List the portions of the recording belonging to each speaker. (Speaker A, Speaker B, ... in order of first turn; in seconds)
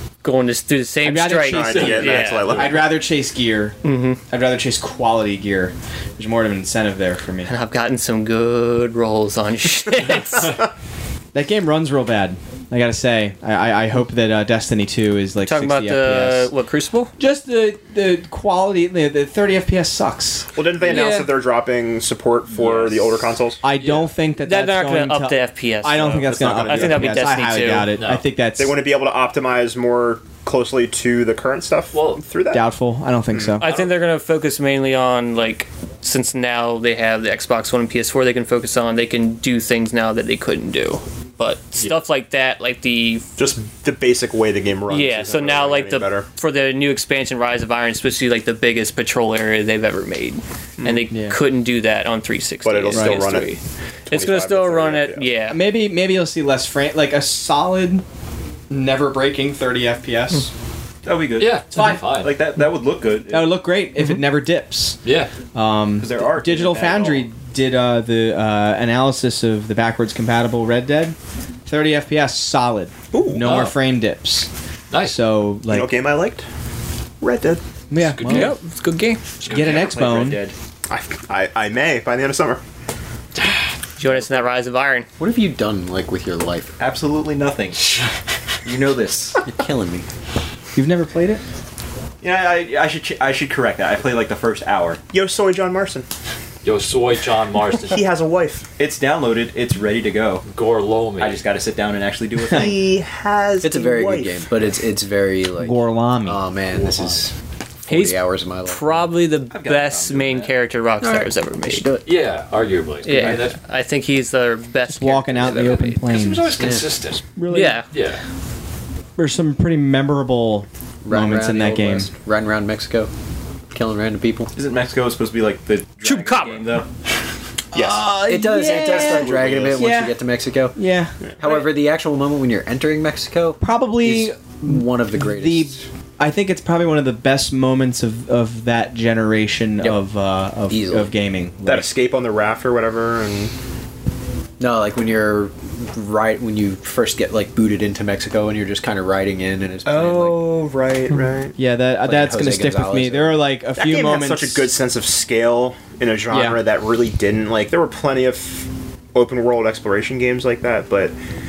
Speaker A: 0.2-2.7, 3.8-4.2, 7.5-10.6, 15.4-17.1, 20.8-21.4, 24.4-27.9, 33.6-43.3, 44.9-55.6, 78.3-79.2, 84.0-85.1, 107.9-111.9, 113.0-116.0, 117.5-117.9, 126.0-126.7
Speaker B: 1.0-3.8, 4.3-7.5, 11.3-16.5, 17.2-20.5, 23.6-28.8, 32.5-33.6, 51.1-51.4, 52.9-53.2, 55.5-58.0, 58.7-60.5, 61.7-62.0, 63.3-65.0, 65.5-71.2, 71.7-74.5, 75.0-75.9, 77.9-78.6, 79.5-80.4, 90.8-91.4, 105.6-106.4, 114.9-116.5, 117.4-117.8, 119.2-122.1, 127.7-130.2, 130.8-131.1, 133.6-141.9, 151.6-154.7, 156.3-156.6
Speaker C: 1.5-2.9, 20.6-23.6, 26.3-27.1, 28.6-32.7, 43.4-46.2, 52.6-53.5, 54.1-55.3, 73.1-73.6, 75.7-76.5, 77.2-77.6, 80.9-82.6, 95.1-96.1, 97.9-98.7, 102.5-104.5, 127.7-128.1, 141.7-143.5, 149.8-151.6, 153.8-161.1
Speaker D: 1.8-2.6, 22.6-22.9, 23.8-24.1, 28.0-28.2, 31.9-32.2, 33.6-33.9, 61.4-62.3, 65.0-65.3, 73.4-73.8, 74.9-75.2, 78.0-78.6, 79.4-79.9, 83.4-83.6, 96.6-98.0, 100.5-101.4, 112.0-113.6, 116.1-117.2, 117.9-118.2
Speaker E: 61.0-63.5, 66.0-67.3, 79.6-80.5, 86.8-88.0, 88.6-89.4, 92.2-95.0, 98.8-100.5, 101.2-102.9, 109.5-110.5, 124.5-126.9, 129.4-129.7
Speaker F: 85.2-86.8, 89.4-90.1, 103.6-107.3, 107.9-109.1, 111.0-112.0, 116.6-116.9, 121.0-123.1, 123.7-124.5, 128.2-130.8, 131.4-135.8, 140.7-141.1, 144.6-150.6, 152.0-153.4